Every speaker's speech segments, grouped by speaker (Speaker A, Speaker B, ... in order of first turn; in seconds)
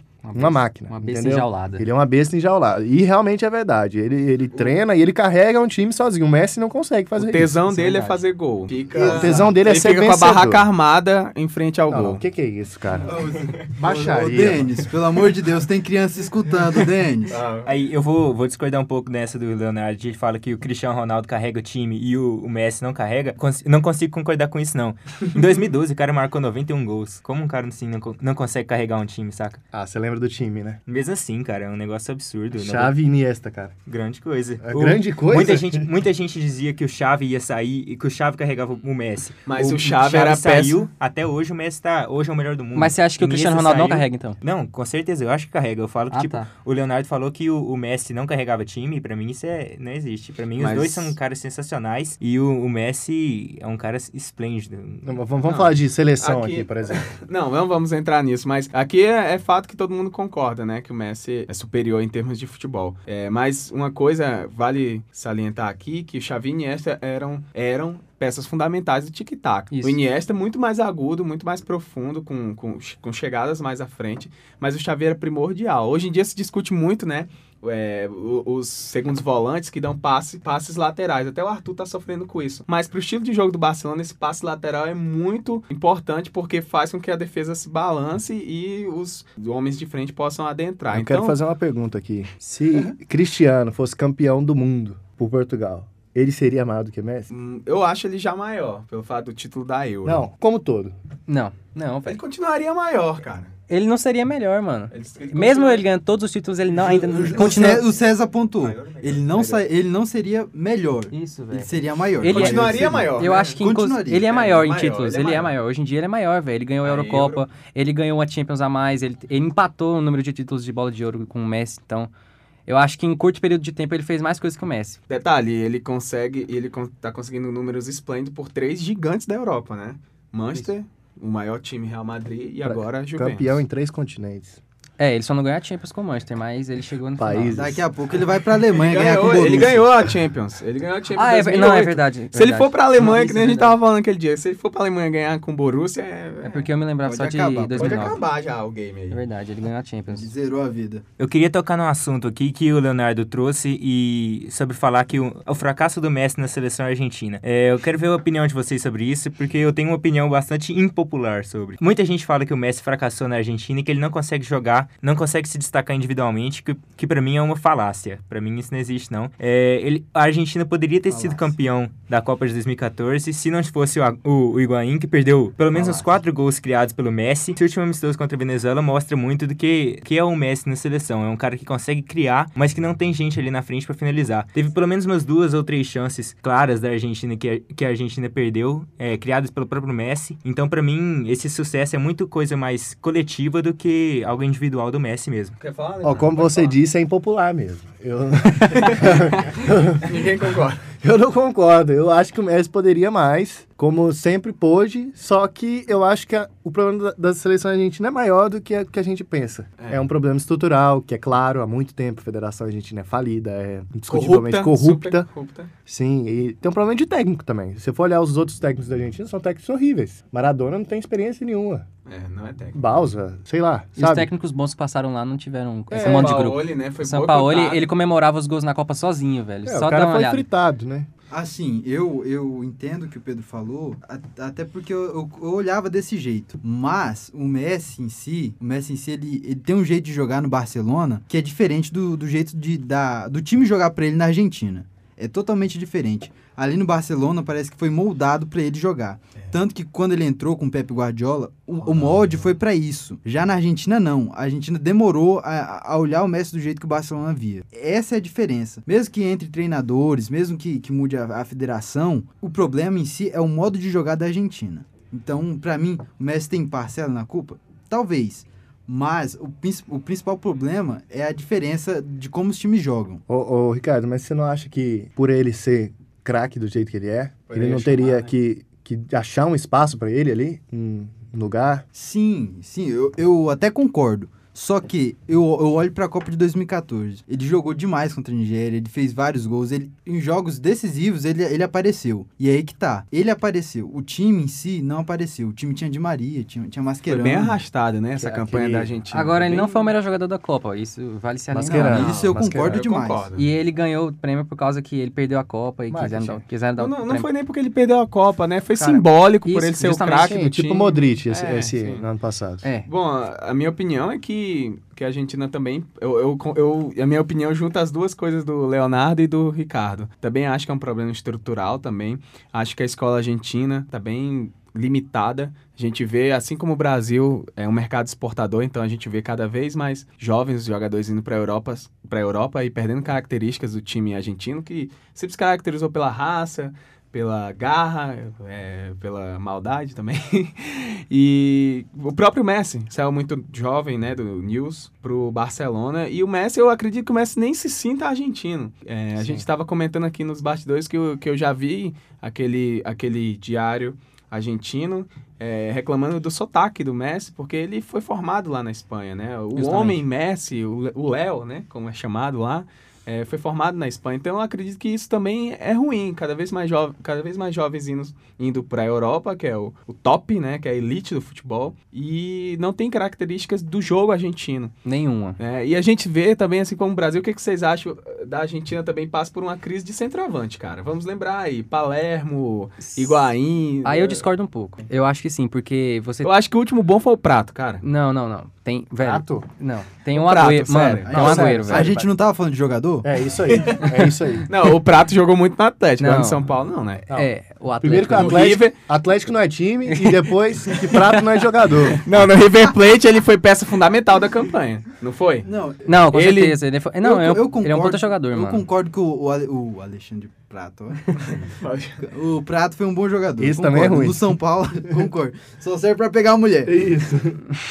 Speaker A: 0.2-1.8, 7.7-8.2, 42.7-44.4, 46.1-46.5, 69.7-70.0, 101.3-102.2, 103.7-107.8, 111.1-122.1, 122.7-125.0, 135.0-137.6, 141.1-143.8, 146.4-148.2, 149.1-150.3, 224.0-230.4, 299.1-302.2, 303.4-307.3, 309.4-310.5, 359.6-360.0, 374.8-375.4, 382.9-383.2, 383.8-386.3, 387.8-391.9, 396.0-396.4, 397.1-398.5, 399.9-400.3, 405.9-408.6
Speaker B: 0.3-7.6, 9.0-10.7, 11.9-14.8, 29.7-30.8, 32.5-33.7, 34.6-35.9, 55.0-57.1, 90.9-97.3, 100.0-101.0, 132.6-134.6, 137.2-137.8, 196.0-200.3, 201.0-215.3, 215.9-221.8, 222.7-224.3, 225.9-226.4, 229.6-231.1, 273.3-281.8, 298.2-298.9, 301.5-302.8, 305.9-306.4, 310.2-312.6, 349.2-349.4, 389.0-389.4, 391.1-392.1, 393.0-394.5, 397.8-402.0, 413.4-414.3, 416.6-417.4
Speaker C: 7.2-12.2, 13.1-13.6, 17.3-17.7, 39.5-40.8, 50.6-51.1, 55.4-91.4, 97.3-100.2, 102.1-103.5, 104.9-105.8, 106.8-107.9, 108.6-109.6, 112.2-113.6, 114.2-115.5, 116.8-117.4, 125.1-133.6, 138.7-146.7, 147.8-149.2, 195.6-196.8, 198.7-200.8, 209.8-210.0, 214.1-215.7, 222.1-223.0, 225.9-227.9, 251.8-252.5, 277.5-278.3, 297.1-299.9, 302.0-303.4, 306.8-312.0, 312.9-374.7, 375.4-384.2, 386.2-387.8, 390.1-391.5, 393.6-397.1, 398.1-398.8, 402.0-405.5, 406.1-406.6, 411.1-412.0
Speaker D: 8.9-9.5, 13.1-17.4, 106.9-114.3, 137.5-139.9, 147.0-148.2, 150.1-151.0, 171.1-171.4, 231.3-273.2, 281.9-297.6, 301.6-303.3, 391.0-393.1, 405.4-405.9, 407.0-411.1, 412.1-416.9
Speaker E: 17.6-29.6, 30.9-32.9, 33.9-55.1, 151.2-195.6